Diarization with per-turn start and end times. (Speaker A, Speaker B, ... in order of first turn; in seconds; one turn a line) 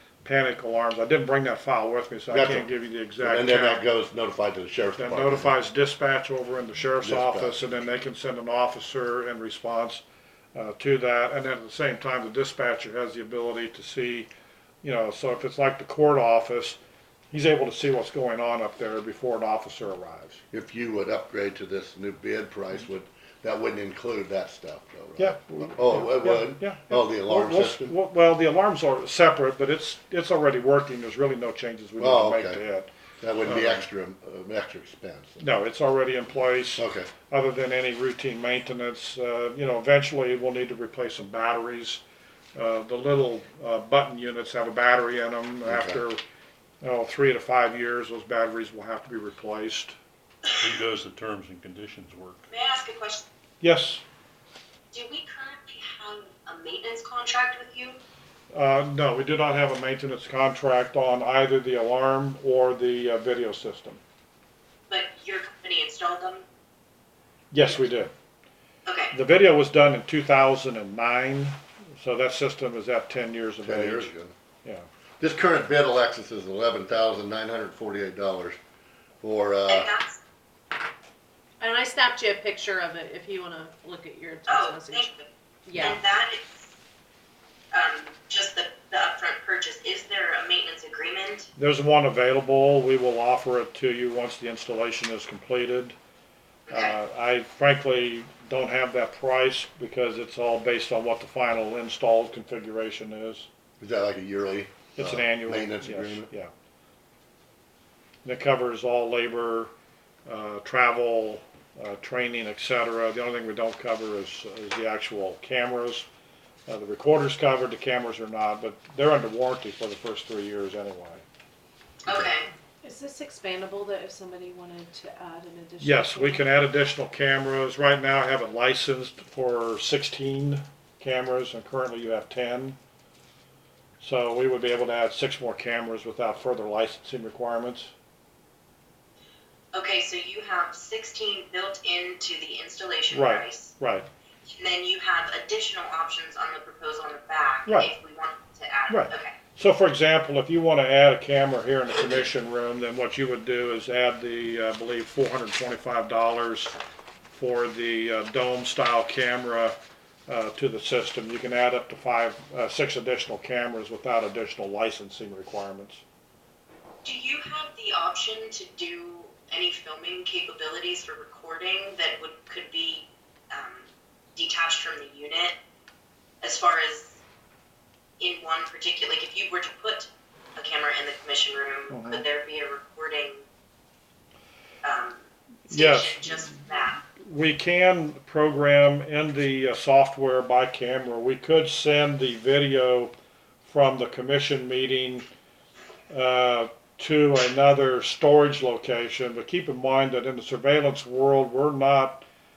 Speaker A: 0.2-3.8
Speaker B: 2.3-2.7
Speaker B: 3.2-5.5
Speaker A: 5.0-10.0
Speaker B: 7.0-7.7
Speaker A: 10.5-14.3
Speaker A: 14.8-16.8
Speaker A: 17.3-20.4
Speaker B: 20.5-27.9
Speaker A: 25.2-32.9
Speaker B: 32.0-32.6
Speaker B: 33.2-35.4
Speaker A: 33.4-33.8
Speaker A: 35.4-42.0
Speaker B: 36.8-37.1
Speaker A: 42.5-46.2
Speaker B: 45.6-46.0
Speaker A: 46.8-50.0
Speaker C: 50.5-52.5
Speaker D: 52.5-53.2
Speaker A: 53.6-54.0
Speaker D: 54.9-58.0
Speaker A: 58.5-64.0
Speaker D: 64.9-66.4
Speaker A: 67.5-68.1
Speaker D: 68.8-69.1
Speaker A: 69.1-74.1
Speaker B: 73.6-74.3
Speaker B: 75.2-78.6
Speaker B: 79.2-79.9
Speaker D: 79.7-80.2
Speaker E: 81.6-85.1
Speaker D: 84.5-86.7
Speaker E: 85.7-86.0
Speaker D: 87.7-91.5
Speaker A: 91.6-96.0
Speaker D: 96.7-97.0
Speaker A: 96.7-103.5
Speaker B: 103.8-106.3
Speaker A: 105.0-106.5
Speaker A: 108.2-109.7
Speaker A: 110.2-116.0
Speaker A: 116.7-121.2
Speaker D: 122.0-122.5
Speaker E: 122.8-126.4
Speaker A: 125.8-132.8
Speaker A: 134.0-137.9
Speaker D: 139.7-143.7
Speaker A: 143.1-144.1
Speaker D: 144.5-149.3
Speaker A: 147.7-147.9
Speaker A: 148.9-156.7
Speaker A: 157.3-159.8
Speaker A: 160.3-166.0
Speaker D: 167.0-175.5
Speaker D: 176.4-177.2
Speaker D: 178.2-183.4
Speaker A: 181.9-182.2
Speaker D: 184.8-187.0
Speaker A: 185.7-186.4
Speaker A: 187.2-193.1
Speaker A: 193.6-195.3
Speaker A: 196.1-202.2